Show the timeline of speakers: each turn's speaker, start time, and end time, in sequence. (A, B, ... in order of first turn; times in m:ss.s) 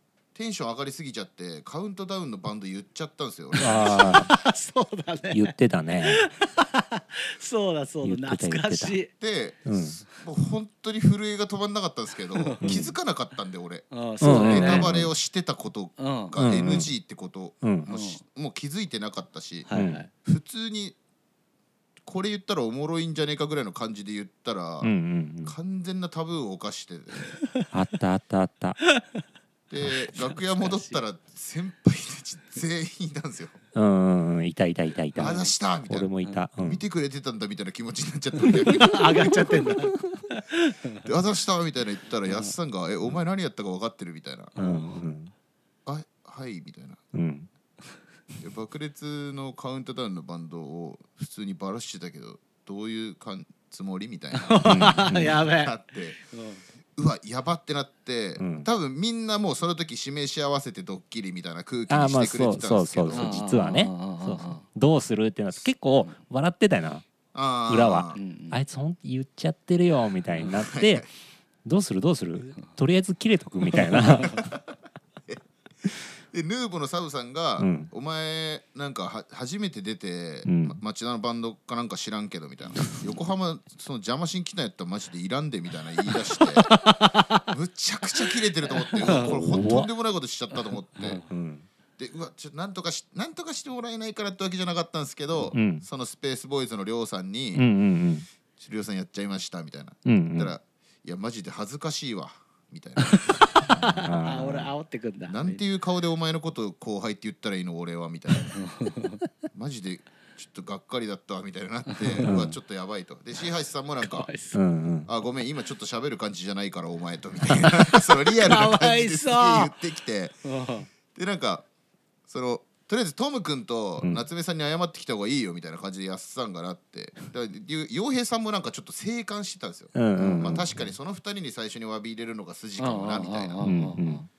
0:00.4-0:04.2 A
0:03.5-0:09.1 B
0:03.6-0:04.3 C
0:05.3-0:06.2 C
0:08.0-0:09.0 C
0:09.2-0:21.0 A
0:09.7-0:10.0 C
0:12.4-0:12.7 B
0:12.6-0:13.0 C
0:13.9-0:15.0 B
0:14.2-0:15.1 C
0:16.0-0:16.4 B
0:16.4-0:16.9 C
0:17.6-0:17.9 C
0:17.9-0:18.2 B
0:19.7-0:20.1 B
0:19.7-0:20.0 C
0:22.0-0:24.9 A
0:24.8-0:25.6 C
0:25.4-0:27.4 A
0:27.7-0:28.8 C
0:29.7-0:33.6 A
0:30.1-0:31.0 B
0:33.8-0:36.8 C
0:35.2-0:35.6 B
0:35.2-0:36.1 A
0:36.6-0:39.5 A
0:38.4-0:41.1 B
0:41.0-0:44.5 A
0:42.3-0:42.5 B
0:44.6-0:45.0 B
0:44.6-0:45.3 C
0:45.8-0:47.0 A
0:47.1-0:47.5 C
0:48.4-0:56.2 A
0:54.3-0:56.6 B
0:54.6-0:55.4 C
0:56.9-1:03.4 A
0:58.4-0:58.7 C
1:01.9-1:07.0 C
1:03.1-1:04.6 B
1:07.3-1:08.2 A
1:07.7-1:11.1 C
1:08.1-1:08.6 B
1:10.5-1:11.0 A
1:11.6-1:14.5 C
1:13.8-1:14.6 A
1:15.3-1:26.8 A
1:17.6-1:17.9 C
1:20.4-1:20.8 C
1:26.6-1:27.5 B
1:27.5-1:31.2 A
1:28.7-1:29.4 B
1:29.1-1:29.9 C
1:31.0-1:31.3 B
1:31.3-1:31.6 C
1:32.0-1:37.7 A
1:35.5-1:35.8 C
1:37.5-1:38.3 C
1:38.6-1:43.5 A
1:40.1-1:40.6 C
1:43.1-1:45.6 B
1:43.7-1:44.7 C
1:45.3-1:48.6 A
1:48.5-1:49.2 B
1:49.5-1:54.3 A
1:51.9-1:52.3 B
1:52.2-1:52.6 C
1:54.0-1:54.6 B
1:54.5-1:55.1 C
1:55.1-2:00.4 A
1:57.6-1:59.7 B
2:00.4-2:00.9 B
2:01.1-2:01.7 A
2:02.3-2:13.6 A
2:09.9-2:10.7 C
2:12.8-2:14.3 B
2:13.6-2:14.3 C